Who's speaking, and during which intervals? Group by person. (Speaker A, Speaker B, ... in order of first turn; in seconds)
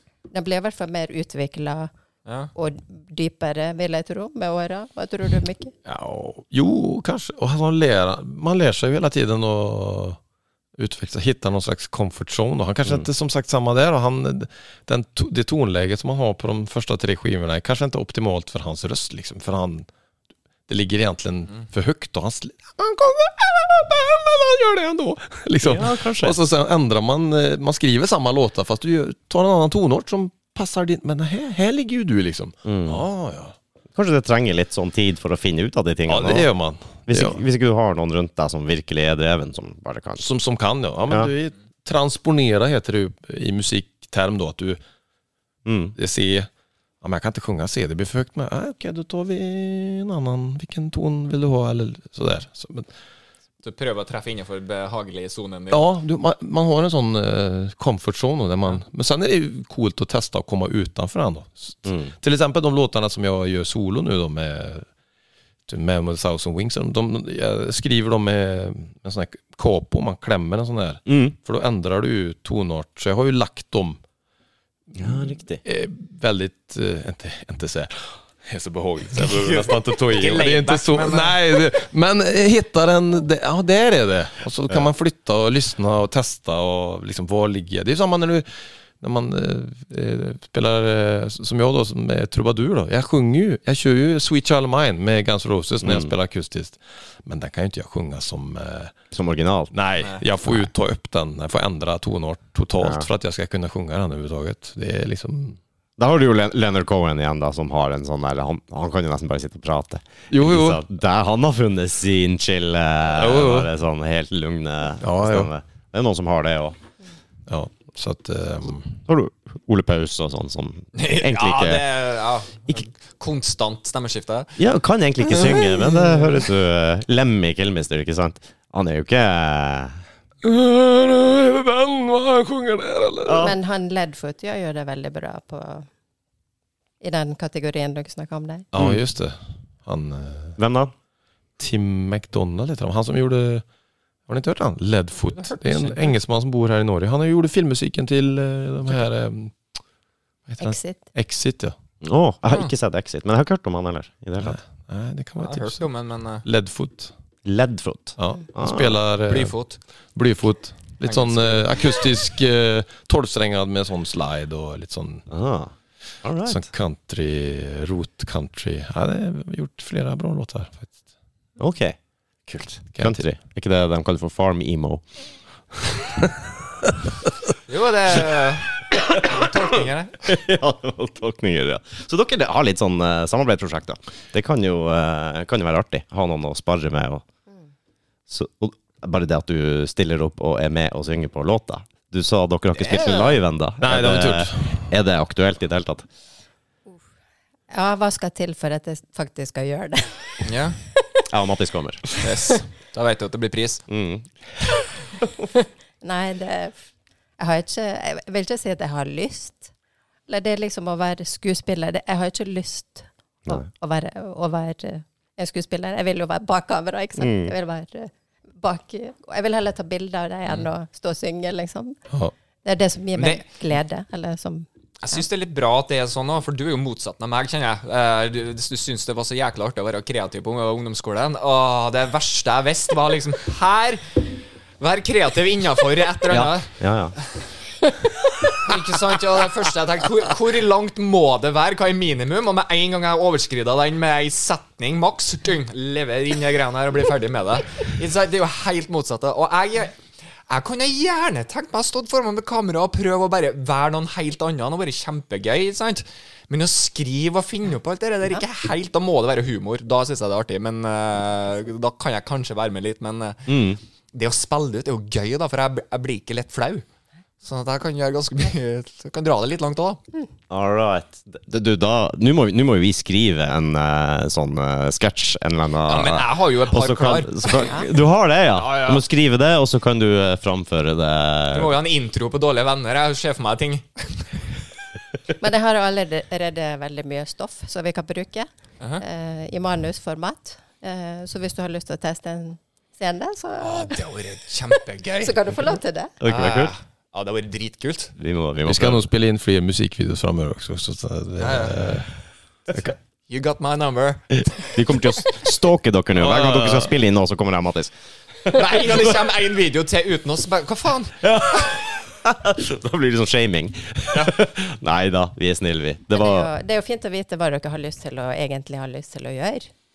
Speaker A: 0.3-1.9, 2.5-5.7, 133.4-135.9, 137.0-138.7, 150.6-151.0, 197.7-200.4, 206.0-206.7, 207.4-209.7, 210.3-222.0, 222.6-224.7, 285.4-288.5, 289.0-294.0, 295.2-296.1, 316.1-319.7
Speaker B: 2.2-2.5, 53.6-55.9, 79.1-81.5, 120.9-124.5, 125.4-126.4, 145.3-146.1, 155.4-156.4, 159.3-159.8, 161.0-161.7, 177.7-180.3, 192.9-193.3, 200.4-200.8, 202.2-203.8, 223.2-223.4, 225.0-234.3, 234.8-236.7, 238.6-263.6, 264.1-266.9, 267.4-270.0, 275.9-277.7, 278.5-279.0, 281.5-284.3, 293.6-295.5, 296.2-298.1, 301.4-301.8, 303.3-304.9, 308.5-311.7, 314.1-314.4
Speaker C: 5.8-10.2, 10.8-19.9, 20.7-33.5, 36.1-37.4, 40.2-44.8, 46.0-46.5, 47.0-52.9, 55.7-64.9, 65.7-74.0, 74.9-88.5, 89.0-98.9, 99.7-105.6, 110.3-110.8, 113.1-113.7, 115.0-115.5, 117.5-119.0, 130.4-133.6, 138.7-140.6, 141.6-143.6, 144.3-149.6, 150.5-151.7, 154.4-155.8, 156.4-157.1, 158.2-159.6, 160.1-165.2, 166.5-170.9, 172.9-173.2, 193.8-194.9, 298.6-302.1, 306.2-306.9
Speaker D: 25.6-26.4, 32.6-33.0, 33.9-36.5, 37.1-40.3, 45.6-45.9, 71.1-71.3, 75.0-75.6, 95.8-96.1, 99.1-99.7, 102.8-103.1, 106.0-116.8, 119.1-121.8, 124.6-130.0, 133.2-133.6, 138.7-139.0, 140.6-140.9, 152.0-154.6, 157.4-159.0, 165.3-165.7, 166.2-166.7, 171.6-175.0, 180.2-187.2, 188.3-196.1, 201.3-202.1, 203.9-204.3, 217.2-217.5, 236.3-237.2, 263.5-263.8, 270.5-281.7, 296.2-296.7, 298.2-299.1, 304.7-307.9, 308.5-309.1, 311.2-316.5